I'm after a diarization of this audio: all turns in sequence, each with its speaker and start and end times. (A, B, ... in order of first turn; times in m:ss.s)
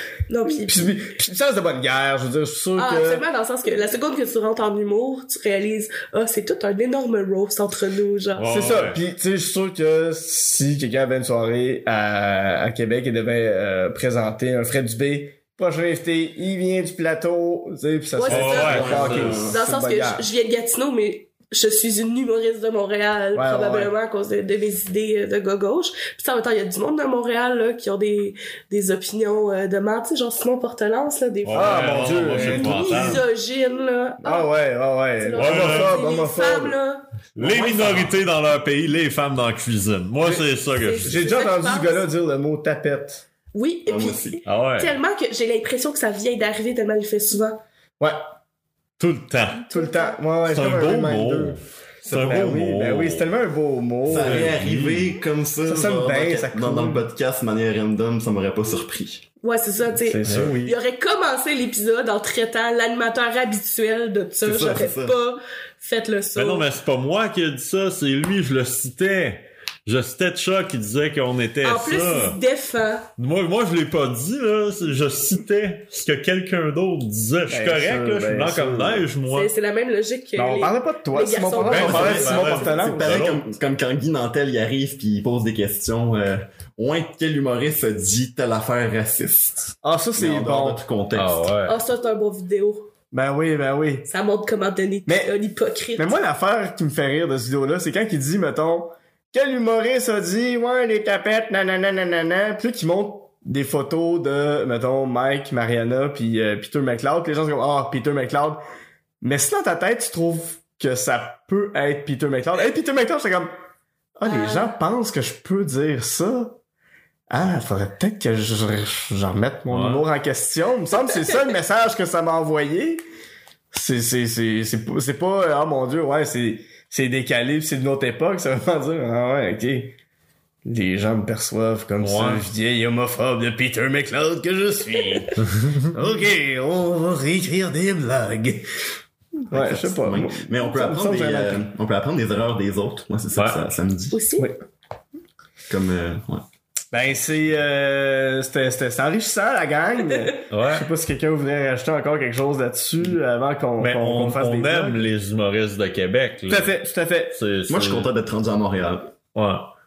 0:00.3-0:00.9 A
0:00.5-0:03.2 B
0:02.8-0:08.5 A
0:08.4-0:09.0 C
0:08.5-0:20.3 B
0:18.2-0:34.5 A
0:18.2-0:19.5 C
0:18.5-0:19.6 D
0:23.3-0:23.9 B
0:31.4-0:33.2 C
0:31.5-0:33.2 B
0:34.2-0:36.8 B
0:35.2-0:38.1 A
0:35.4-0:36.0 C
0:37.4-0:41.2 C
0:40.8-0:42.0 A
0:41.0-0:43.2 B
0:43.5-0:47.6 A
0:43.9-0:44.4 D
0:44.4-0:44.9 C
0:49.0-0:49.7 C
0:49.7-0:50.2 A
0:49.7-0:54.5 B
0:50.5-0:53.3 C
0:54.1-0:55.1 C
0:54.1-0:59.2 D
0:55.6-0:57.0 B
0:59.4-1:06.7 A
0:59.9-1:00.8 B
1:00.3-1:00.6 C
1:04.4-1:05.2 D
1:06.4-1:12.4 C
1:11.6-1:13.1 A
1:13.2-1:19.5 C
1:17.5-1:19.1 B
1:19.3-1:23.0 A
1:20.4-1:23.1 B
1:21.6-1:23.4 C
1:21.7-1:31.5 D
1:29.8-1:30.8 B
1:31.1-1:31.8 C
1:31.7-1:32.9 A
1:33.1-1:34.1 B
1:34.1-1:36.2 A
1:36.0-1:48.6 B
1:49.2-1:53.5 B
1:54.2-1:56.6 B
1:54.2-1:54.7 A
1:57.3-2:03.0 B
1:59.7-2:00.0 C
2:03.7-2:09.9 B
2:10.6-2:15.3 B
2:12.0-2:12.4 C
2:15.9-2:18.6 B
2:19.5-2:21.7 B
2:19.5-2:24.2 D
2:23.4-2:23.6 C
2:24.1-2:24.5 A
2:25.7-2:26.4 D
2:26.9-2:35.1 B
2:30.5-2:30.9 C
2:33.8-2:36.8 C
2:36.5-2:37.4 B
2:37.3-2:38.1 C
2:37.7-2:39.1 D
2:39.3-2:39.7 C